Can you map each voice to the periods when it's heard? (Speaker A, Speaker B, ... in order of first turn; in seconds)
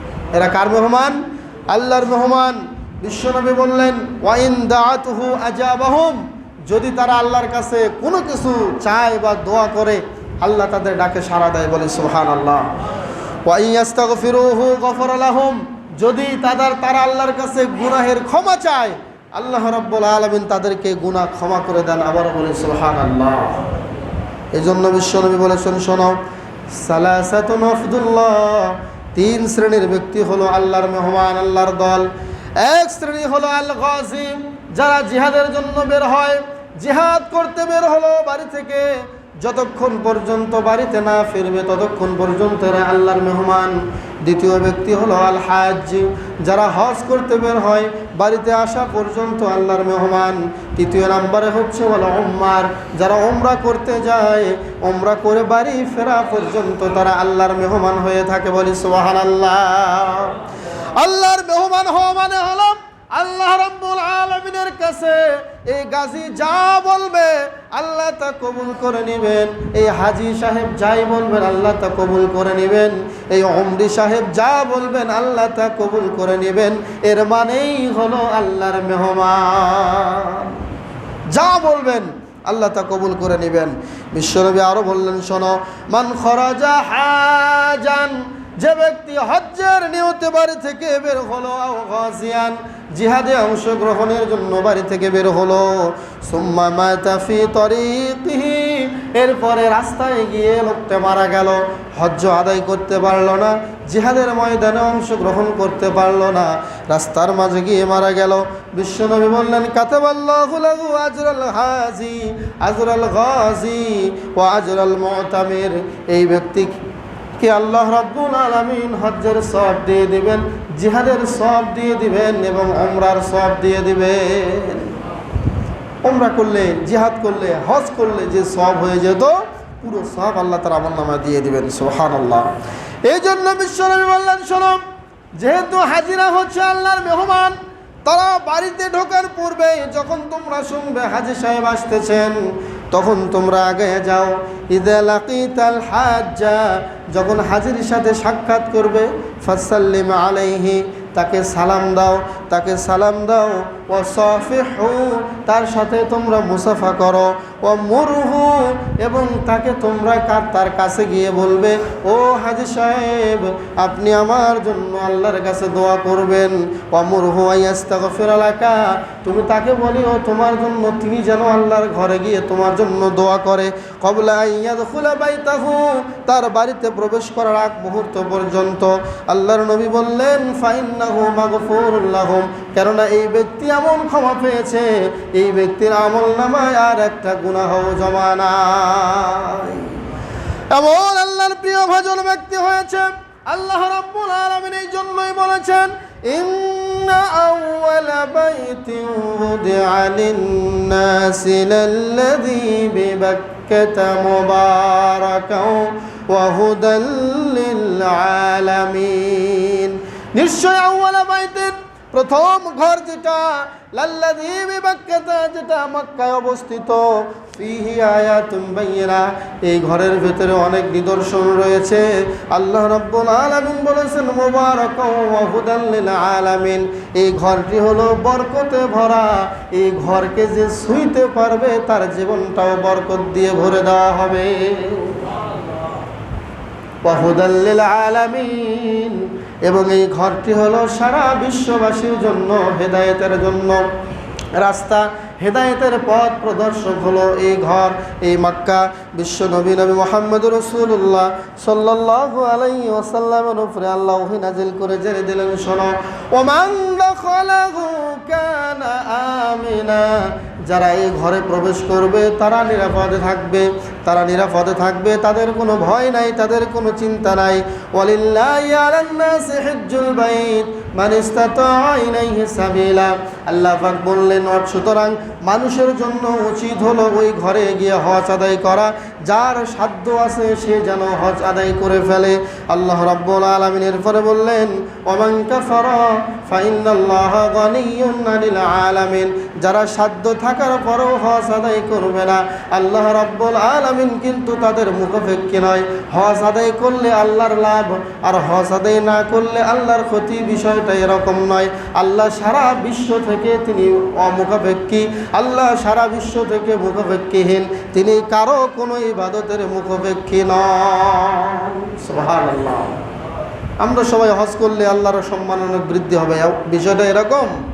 Speaker A: 0.3-12.7, 13.4-23.7, 24.5-26.2, 26.7-32.1, 32.6-60.4, 61.0-80.6, 81.3-116.8, 117.4-124.9, 126.0-132.5, 133.1-134.8, 135.4-142.3, 142.9-189.9, 190.7-235.3, 237.0-243.8, 244.6-313.0, 313.8-317.6